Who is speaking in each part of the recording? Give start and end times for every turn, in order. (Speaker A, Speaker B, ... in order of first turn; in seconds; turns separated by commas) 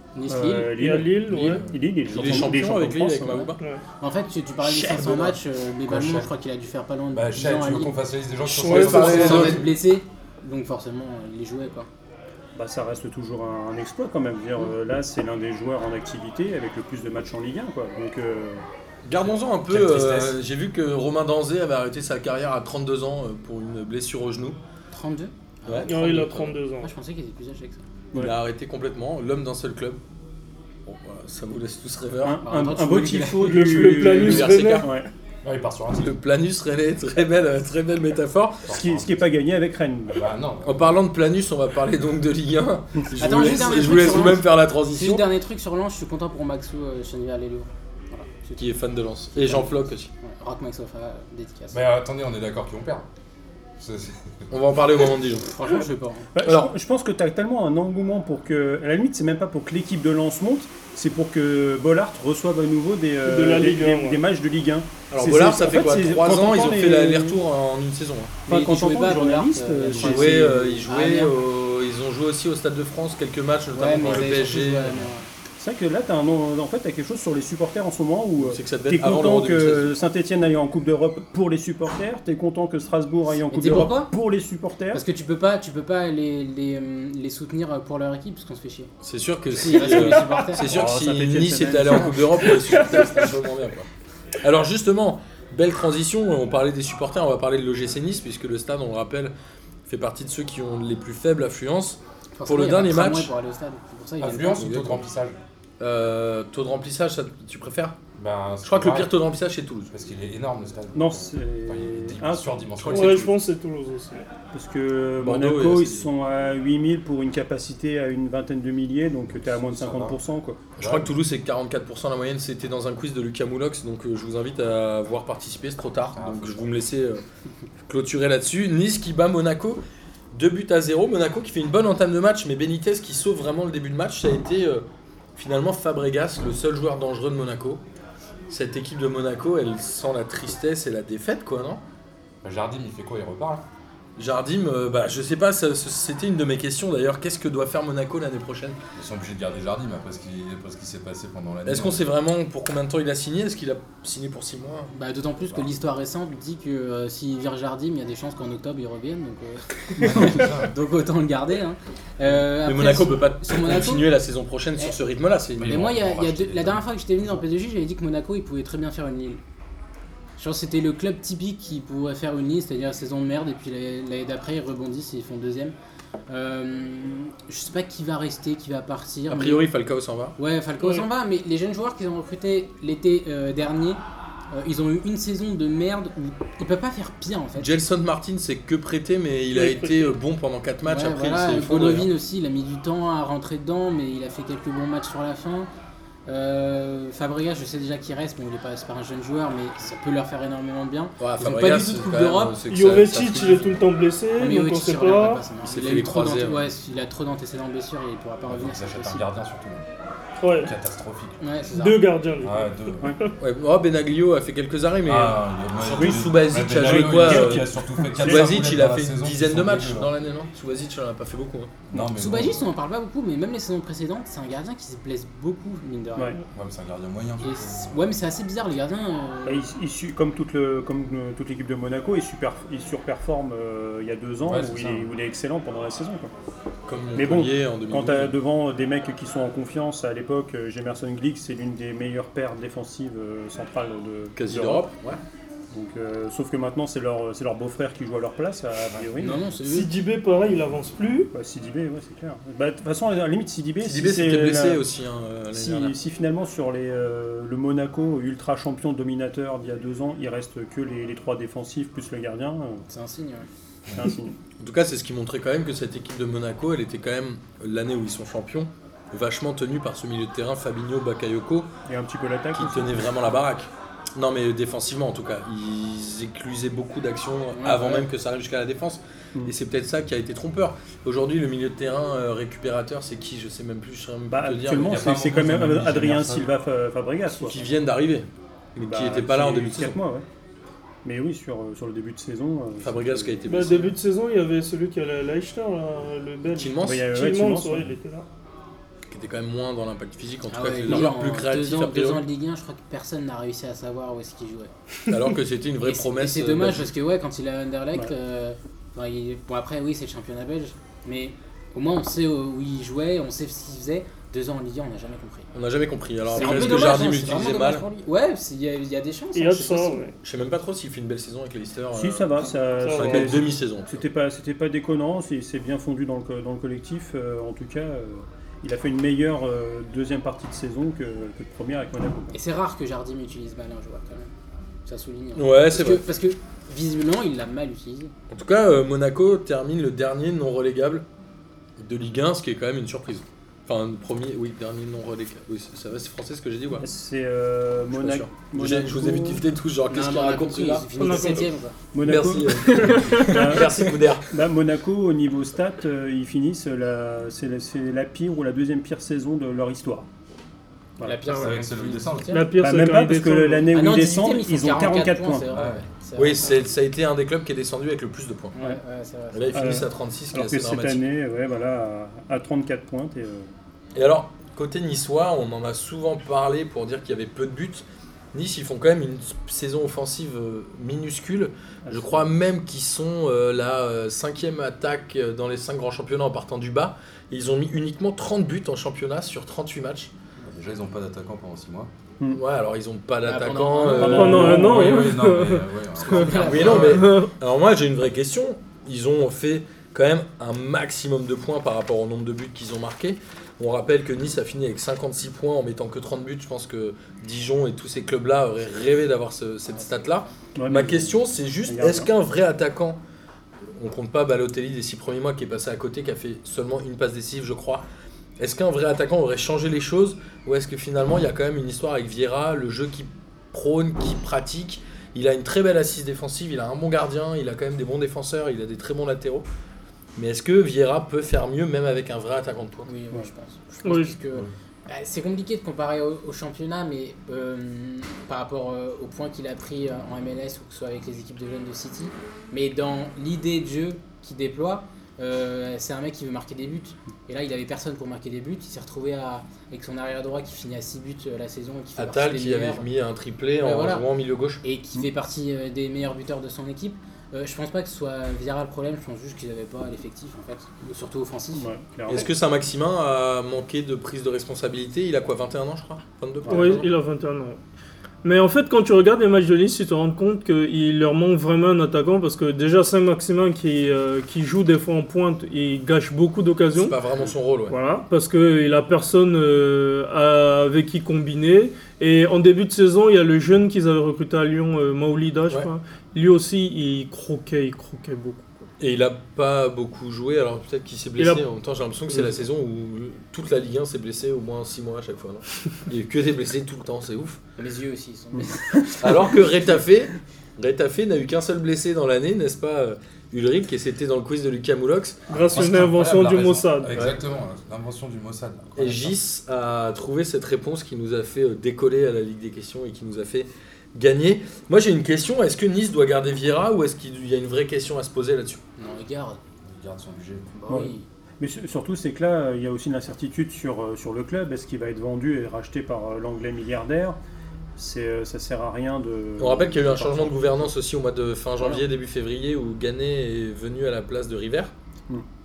Speaker A: 0.1-0.8, Speaker B: 0.3-3.5, Speaker C: 0.7-1.6, Speaker D: 1.3-1.9, Speaker E: 2.1-3.6, Speaker A: 4.0-7.9, Speaker D: 4.6-6.3, Speaker D: 7.1-9.7, Speaker C: 8.5-9.5, Speaker E: 8.6-9.7, Speaker A: 8.6-11.9, Speaker B: 12.6-18.6, Speaker E: 19.0-24.6, Speaker D: 19.2-20.4, Speaker A: 24.9-27.9, Speaker E: 25.6-26.5, Speaker C: 25.9-26.9, Speaker E: 28.1-30.0, Speaker E: 30.9-32.4, Speaker B: 32.2-35.1, Speaker A: 32.4-34.1, Speaker C: 33.4-35.0, Speaker E: 34.1-34.9, Speaker D: 35.4-36.1, Speaker E: 36.0-38.7, Speaker D: 38.7-39.2, Speaker B: 38.7-40.3, Speaker D: 40.1-40.9, Speaker E: 40.6-45.3, Speaker A: 43.2-48.8, Speaker E: 48.6-50.1, Speaker A: 49.3-51.8, Speaker D: 51.7-53.1, Speaker D: 53.8-54.2, Speaker E: 54.5-55.5, Speaker A: 55.5-56.3, Speaker B: 56.3-67.4, Speaker E: 56.4-56.7, Speaker C: 63.2-64.2, Speaker E: 65.1-68.3, Speaker A: 68.5-71.3, Speaker B: 68.5-70.8, Speaker E: 70.0-75.1, Speaker A: 73.7-75.3, Speaker D: 74.0-75.1, Speaker B: 75.6-85.0, Speaker E: 78.4-80.0, Speaker A: 83.5-84.1, Speaker A: 84.9-88.9, Speaker E: 89.0-93.9, Speaker A: 89.5-90.8, Speaker C: 89.8-90.2, Speaker B: 90.6-92.8, Speaker C: 92.8-93.3, Speaker E: 94.4-99.3, Speaker E: 99.9-103.3, Speaker A: 102.4-105.0, Speaker D: 104.2-105.4, Speaker E: 105.8-108.0, Speaker D: 108.2-109.1, Speaker E: 108.6-109.9, Speaker D: 109.9-113.4, Speaker B: 111.0-112.6, Speaker E: 112.8-113.3, Speaker C: 112.9-114.3, Speaker B: 114.5-120.6, Speaker E: 115.2-116.1, Speaker D: 119.2-120.2, Speaker E: 120.8-127.2, Speaker D: 120.8-121.2, Speaker D: 126.1-126.7, Speaker E: 127.9-129.8, Speaker E: 130.3-134.8, Speaker E: 135.4-137.8, Speaker E: 138.5-141.8, Speaker D: 142.4-143.7, Speaker E: 144.2-148.8, Speaker D: 148.9-152.1, Speaker E: 151.7-154.9, Speaker A: 154.9-164.1, Speaker D: 160.0-160.7, Speaker B: 160.0-160.4, Speaker E: 162.6-165.9, Speaker D: 165.6-167.4, Speaker A: 165.6-169.4, Speaker A: 170.4-175.7, Speaker A: 176.3-179.7, Speaker E: 179.3-180.4, Speaker A: 180.4-184.0, Speaker C: 180.8-181.1, Speaker A: 184.5-187.7, Speaker E: 187.6-192.1, Speaker C: 189.5-190.2, Speaker A: 190.8-195.7, Speaker A: 196.3-202.6, Speaker E: 201.2-203.8, Speaker C: 202.7-205.4, Speaker A: 204.4-209.2, Speaker E: 205.6-206.7, Speaker D: 208.5-209.8, Speaker C: 210.4-210.7, Speaker D: 210.6-211.4, Speaker A: 211.4-212.1, Speaker C: 211.7-213.3, Speaker D: 212.4-213.2, Speaker E: 213.4-221.7, Speaker D: 215.1-220.1, Speaker B: 215.9-218.5, Speaker D: 221.9-222.7, Speaker B: 221.9-222.2, Speaker A: 222.2-226.4, Speaker D: 226.5-228.0, Speaker A: 227.4-229.7, Speaker B: 229.4-236.3, Speaker D: 234.4-235.1, Speaker E: 236.9-238.4, Speaker B: 237.2-244.9, Speaker E: 244.3-245.2, Speaker B: 245.7-249.4, Speaker A: 249.2-249.9, Speaker C: 249.6-251.3, Speaker B: 251.3-254.8, Speaker E: 253.8-256.0, Speaker B: 255.5-262.9, Speaker A: 262.9-263.5, Speaker D: 263.9-264.1, Speaker B: 263.9-264.4, Speaker E: 264.6-271.7, Speaker B: 271.9-273.2, Speaker E: 272.5-285.1, Speaker A: 277.5-278.1, Speaker B: 284.3-287.6, Speaker D: 284.7-286.5, Speaker E: 287.4-290.0, Speaker B: 288.8-290.2, Speaker B: 291.0-293.7, Speaker E: 292.8-294.0, Speaker C: 293.5-298.3, Speaker E: 296.5-297.1, Speaker B: 296.8-297.9, Speaker E: 299.1-302.2, Speaker A: 300.5-304.7, Speaker E: 305.1-306.9, Speaker A: 305.8-315.5, Speaker E: 315.5-317.9, Speaker A: 316.3-320.1, Speaker C: 319.4-320.1, Speaker E: 320.2-323.9, Speaker B: 321.9-332.4, Speaker C: 322.8-323.4, Speaker A: 332.3-334.3, Speaker A: 334.9-338.1, Speaker E: 335.4-336.0, Speaker E: 338.3-341.1, Speaker E: 341.8-346.9, Speaker B: 346.8-349.4, Speaker E: 347.9-351.3, Speaker A: 349.9-351.8, Speaker C: 351.0-351.5, Speaker B: 351.9-360.1, Speaker E: 352.0-354.3, Speaker C: 352.6-353.7, Speaker A: 361.0-362.6, Speaker C: 361.3-361.6, Speaker D: 361.4-362.4, Speaker C: 362.3-363.7, Speaker B: 362.6-365.5, Speaker A: 363.7-366.5, Speaker D: 365.5-365.9, Speaker E: 366.2-368.6, Speaker A: 368.6-369.8, Speaker E: 369.3-371.0, Speaker B: 369.5-373.5, Speaker E: 373.9-390.1, Speaker B: 381.9-382.3, Speaker D: 390.4-391.9, Speaker E: 392.3-394.6, Speaker A: 393.2-394.6, Speaker B: 393.9-395.2, Speaker C: 393.9-397.3, Speaker D: 394.4-397.1, Speaker A: 395.9-397.0, Speaker E: 396.4-413.0, Speaker B: 410.6-412.1, Speaker E: 413.8-417.9, Speaker E: 418.4-429.5, Speaker E: 430.2-432.9, Speaker A: 432.9-452.9, Speaker C: 433.8-434.2, Speaker E: 452.0-454.6, Speaker A: 453.6-454.1, Speaker A: 454.6-461.7, Speaker B: 461.5-462.3, Speaker E: 462.1-466.9, Speaker B: 466.4-466.8, Speaker C: 466.5-467.6, Speaker C: 468.2-477.0, Speaker E: 476.8-477.8, Speaker C: 477.7-488.6, Speaker E: 488.8-497.4, Speaker C: 491.2-491.4, Speaker A: 497.6-499.5, Speaker B: 498.3-498.9, Speaker E: 499.0-505.2, Speaker C: 505.3-507.0, Speaker D: 505.3-509.2, Speaker E: 508.8-518.6, Speaker A: 518.8-519.4, Speaker D: 519.6-520.5, Speaker A: 520.5-521.1, Speaker B: 520.7-527.2, Speaker B: 527.8-530.7, Speaker E: 529.4-534.7, Speaker B: 531.6-531.9